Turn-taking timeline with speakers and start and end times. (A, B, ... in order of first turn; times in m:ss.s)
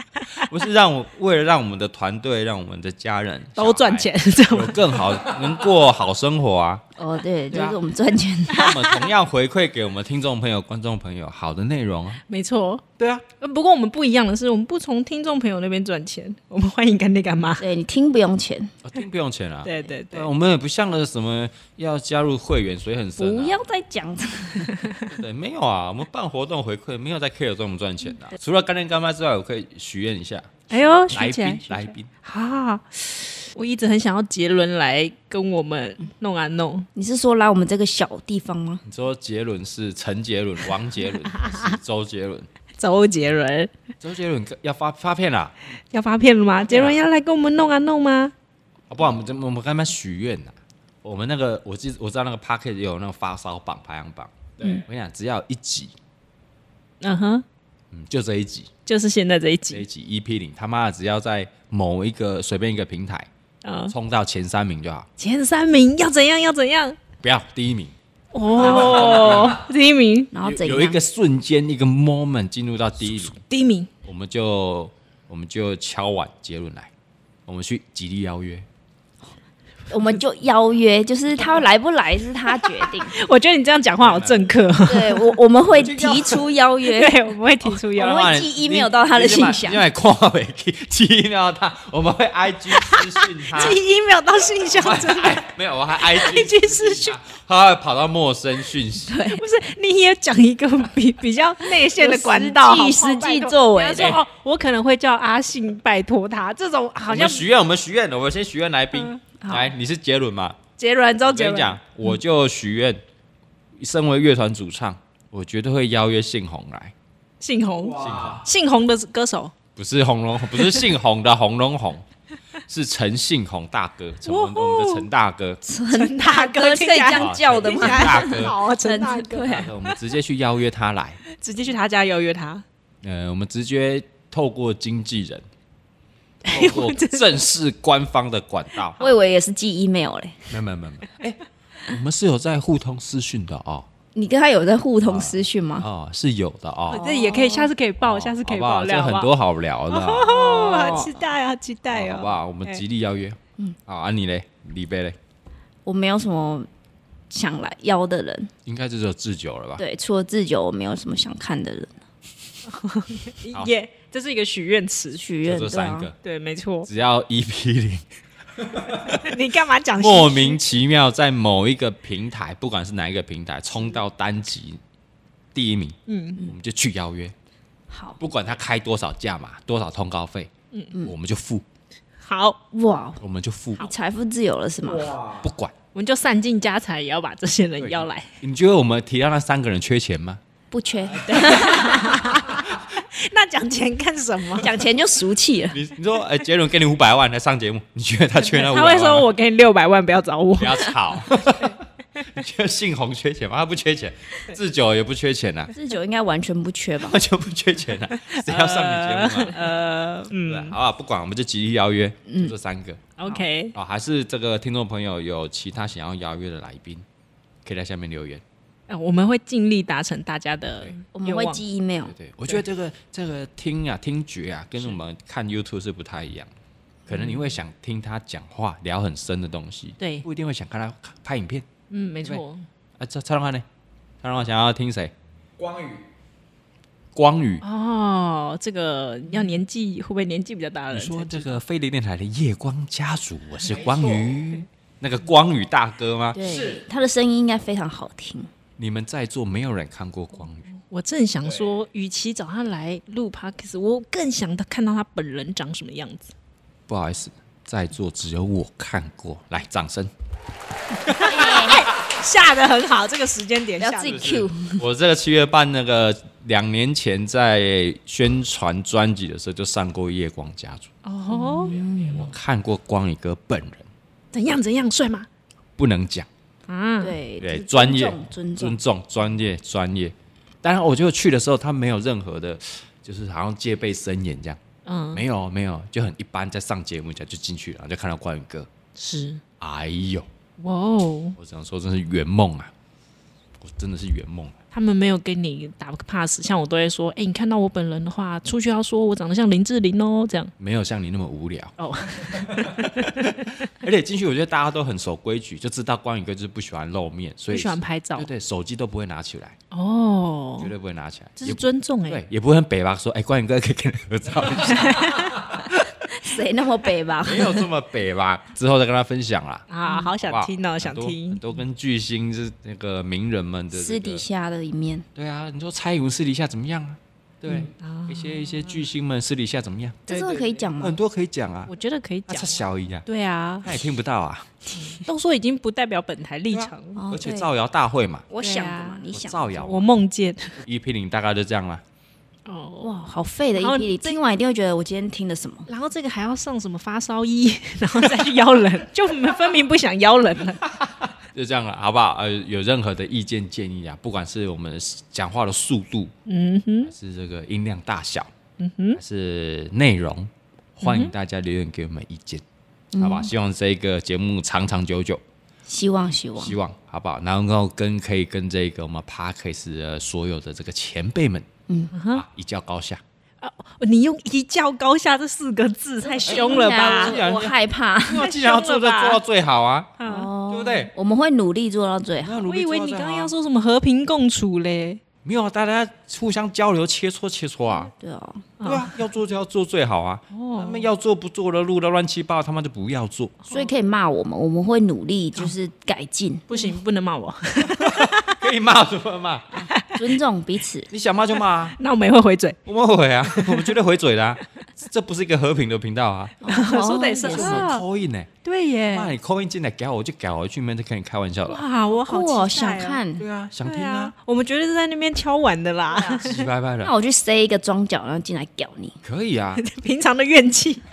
0:00.3-0:06.8 A
0:03.6-0:05.2 B
0:07.0-0:08.8 C
0:07.5-0:07.8 A
0:08.5-0:12.2 A
0:12.3-0:17.6 B
0:13.0-0:13.2 A
0:17.6-0:18.7 C
0:18.8-0:23.6 A
0:19.6-0:20.3 B
0:23.2-0:24.8 C
0:25.1-0:32.1 A
0:30.7-0:36.9 B
0:37.0-0:38.8 C
0:38.8-0:42.5 A
0:41.4-0:41.7 B
0:42.8-0:43.7 B
0:44.0-0:45.5 A
0:45.9-0:48.3 B
0:46.7-0:47.0 A
0:48.9-0:55.9 A
0:57.0-0:57.4 B
0:57.9-0:58.7 A
0:58.9-0:59.8 B
0:59.7-1:03.3 A
1:03.6-1:03.9 B
1:03.9-1:05.1 A
1:05.2-1:07.0 B
1:07.2-1:08.0 A
1:08.3-1:10.3 B
1:08.6-1:09.6 A
1:08.7-1:09.0 C
1:10.3-1:11.0 C
1:10.4-1:13.4 A
1:13.3-1:13.9 B
1:14.0-1:16.9 A
1:17.5-1:18.7 A
1:19.9-1:23.1 C
1:22.5-1:25.4 B
1:24.0-1:24.5 A
1:24.8-1:27.2 C
1:25.7-1:26.4 A
1:26.8-1:28.3 B
1:27.9-1:29.8 C
1:28.0-1:33.8 A
1:32.8-1:37.2 B
1:34.8-1:39.2 A
1:39.1-1:39.4 C
1:39.3-1:47.5 B
1:41.7-1:44.2 C
1:47.0-1:50.6 A
1:48.9-1:49.2 B
1:49.4-1:49.7 C
1:50.8-1:51.8 B
1:51.2-1:53.0 A
1:53.8-1:56.9 A
1:57.4-1:59.5 B
1:58.0-1:58.4 A
1:59.8-2:02.0 A
2:02.7-2:05.6 A
2:04.2-2:05.1 B
2:05.6-2:09.7 C
2:05.9-2:10.0 B
2:07.1-2:08.6 A
2:09.4-2:11.2 A
2:11.3-2:12.6 B
2:13.0-2:15.4 A
2:16.4-2:19.0 A
2:16.5-2:17.2 B
2:19.0-2:20.5 C
2:20.5-2:23.9 A
2:24.2-2:25.9 C
2:25.0-2:27.0 A
2:26.9-2:27.7 C
2:27.0-2:29.3 B
2:28.0-2:30.6 A
2:29.9-2:32.8 B
2:30.3-2:31.1 C
2:31.9-2:35.2 A
2:35.9-2:36.7 C
2:37.3-2:38.5 C
2:38.7-2:39.8 A
2:39.8-2:42.0 C
2:42.7-2:45.2 B
2:45.1-2:46.1 C
2:45.4-2:46.2 A
2:46.2-2:46.9 B
2:46.8-2:48.1 A
2:48.6-2:49.3 A
2:49.0-2:50.6 B
2:50.0-2:54.8 A
2:55.5-2:57.3 A
2:56.1-2:56.4 B
2:57.9-2:58.2 C
2:58.2-3:01.6 A
3:02.2-3:02.6 B
3:02.7-3:03.2 C
3:03.2-3:03.9 A
3:03.8-3:05.2 C
3:05.2-3:05.7 A
3:06.0-3:08.3 B
3:07.8-3:10.4 A
3:10.7-3:12.3 C
3:11.2-3:14.8 B
3:14.6-3:15.8 C
3:15.7-3:19.3 A
3:18.4-3:21.8 B
3:20.6-3:21.8 A
3:22.3-3:25.7 A
3:25.7-3:27.2 C
3:27.0-3:29.7 A
3:28.2-3:30.8 B
3:30.4-3:37.0 A
3:32.3-3:32.5 C
3:33.2-3:33.8 B
3:37.6-3:38.4 A
3:38.9-3:41.6 B
3:41.2-3:42.1 C
3:42.1-3:46.5 A
3:47.1-3:51.7 A
3:47.1-3:47.5 B
3:50.0-3:50.3 B
3:51.9-3:52.7 B
3:53.0-3:53.6 A
3:54.2-3:55.1 A
3:57.2-3:57.6 A
3:57.6-4:01.6 B
4:00.9-4:06.4 A
4:06.3-4:08.5 C
4:08.8-4:10.7 A
4:10.8-4:16.3 B
4:16.9-4:20.1 A
4:21.0-4:21.6 A
4:21.2-4:24.3 B
4:21.3-4:21.8 C
4:23.8-4:24.8 C
4:24.0-4:30.9 A
4:31.0-4:31.8 B
4:31.3-4:32.3 C
4:32.0-4:33.9 A
4:34.3-4:35.3 B
4:35.8-4:36.3 A
4:36.7-4:37.2 B
4:37.0-4:38.8 C
4:37.4-4:44.6 A
4:44.9-4:45.2 B
4:45.1-4:48.7 A
4:49.0-4:49.4 B
4:49.6-4:50.3 A
4:50.6-4:51.4 B
4:51.4-4:52.7 A
4:53.6-4:54.6 A
4:54.7-5:00.5 B
5:00.6-5:09.6 A
5:01.8-5:03.3 B
5:07.5-5:08.3 B
5:09.7-5:10.7 B
5:10.6-5:16.2 A
5:11.4-5:12.2 B
5:14.7-5:15.4 B
5:16.1-5:17.7 C
5:17.2-5:19.7 A
5:19.7-5:21.4 B
5:20.2-5:24.2 A
5:23.7-5:25.1 C
5:25.2-5:30.0 A
5:27.7-5:28.9 B
5:30.1-5:30.6 B
5:30.1-5:31.0 C
5:30.8-5:31.7 A
5:31.7-5:33.7 B
5:32.3-5:33.0 A
5:33.6-5:34.5 A
5:34.7-5:37.0 B
5:36.5-5:38.3 A
5:37.0-5:37.5 C
5:38.3-5:39.6 C
5:38.4-5:39.1 B
5:39.1-5:39.9 A
5:39.6-5:40.6 B
5:40.6-5:41.8 A
5:42.5-5:43.0 B
5:42.8-5:45.7 C
5:43.6-5:44.2 B
5:45.7-5:50.7 B
5:51.3-5:56.1 A
5:56.3-5:56.9 B
5:56.9-5:58.3 A
5:58.6-5:59.0 B
5:59.0-6:02.4 A
6:00.8-6:01.1 B
6:02.9-6:03.3 C
6:03.0-6:05.2 A
6:05.7-6:06.6 C
6:06.4-6:11.5 A
6:11.9-6:12.2 B
6:12.1-6:13.0 A
6:13.4-6:17.2 B
6:16.0-6:18.3 C
6:16.2-6:17.5 A
6:18.0-6:20.9 A
6:18.1-6:19.2 B
6:20.0-6:20.3 B
6:20.0-6:22.4 C
6:22.2-6:23.3 A
6:22.4-6:25.0 B
6:25.2-6:27.9 A
6:27.9-6:28.5 C
6:28.6-6:29.0 B
6:28.6-6:33.4 A
6:30.3-6:30.9 B
6:33.5-6:36.8 C
6:36.5-6:38.4 B
6:37.6-6:39.7 A
6:39.7-6:40.1 B
6:39.9-6:40.9 C
6:40.9-6:41.8 A
6:41.8-6:42.6 B
6:42.7-6:46.4 A
6:43.3-6:43.8 B
6:46.4-6:47.7 C
6:46.5-6:47.8 B
6:47.3-6:48.3 A
6:48.4-6:49.1 B
6:48.9-6:51.6 A
6:51.5-6:53.0 B
6:52.0-6:53.2 C
6:53.2-6:54.1 A
6:53.6-6:56.5 B
6:55.9-6:56.3 C
6:56.2-6:56.9 A
6:56.8-6:59.0 C
6:59.0-6:59.6 A
6:59.6-7:00.8 B